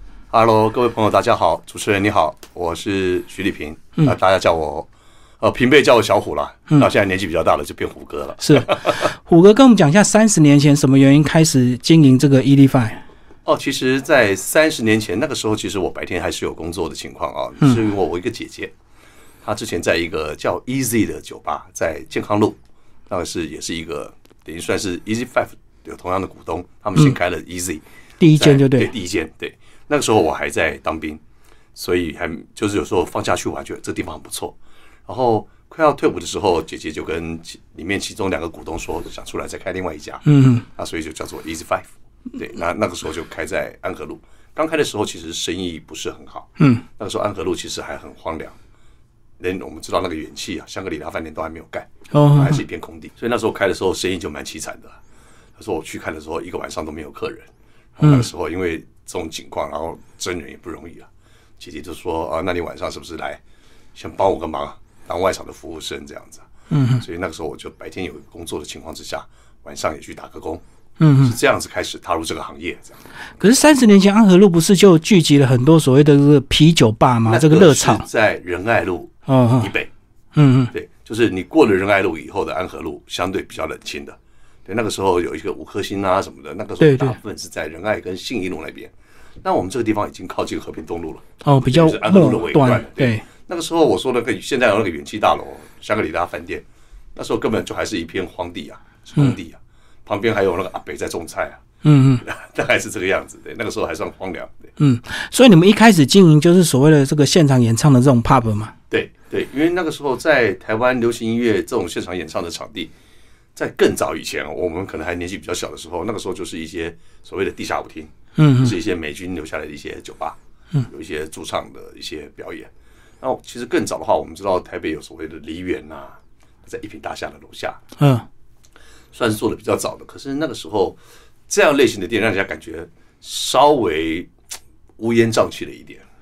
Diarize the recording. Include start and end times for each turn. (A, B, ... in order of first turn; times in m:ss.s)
0:00.3-0:04.9 A
0:05.4-0:09.1 A
0:08.4-0:13.0 B
0:13.5-0:18.7 A
0:19.4-0:22.6 A
0:23.1-0:27.8 A
0:28.2-0:28.9 B
0:28.4-0:31.2 A
0:31.8-0:34.6 A
0:35.1-0:48.6 A
0:40.3-0:40.7 B
0:46.6-0:46.8 B
0:49.4-0:55.0 A
0:52.1-0:52.6 B
0:55.6-1:01.1 A
0:58.0-0:58.3 B
1:01.6-1:03.4 A
1:04.0-1:06.5 A
1:06.7-1:07.0 B
1:07.0-1:10.6 A
1:11.0-1:11.4 B
1:11.2-1:13.0 A
1:13.4-1:18.0 B
1:17.3-1:19.9 A
1:19.3-1:19.7 B
1:20.4-1:20.7 B
1:20.7-1:28.9 A
1:26.8-1:27.2 B
1:29.4-1:36.6 A
1:31.4-1:33.2 B
1:37.2-1:41.6 A
1:41.8-1:42.2 B
1:42.2-1:44.7 A
1:44.8-1:48.7 B
1:48.9-1:52.9 A
1:53.6-2:00.4 A
1:58.4-1:58.8 B
2:00.9-2:02.7 A
2:03.2-2:07.8 A
2:08.0-2:08.3 B
2:09.1-2:11.0 A
2:11.5-2:14.3 A
2:15.0-2:16.0 A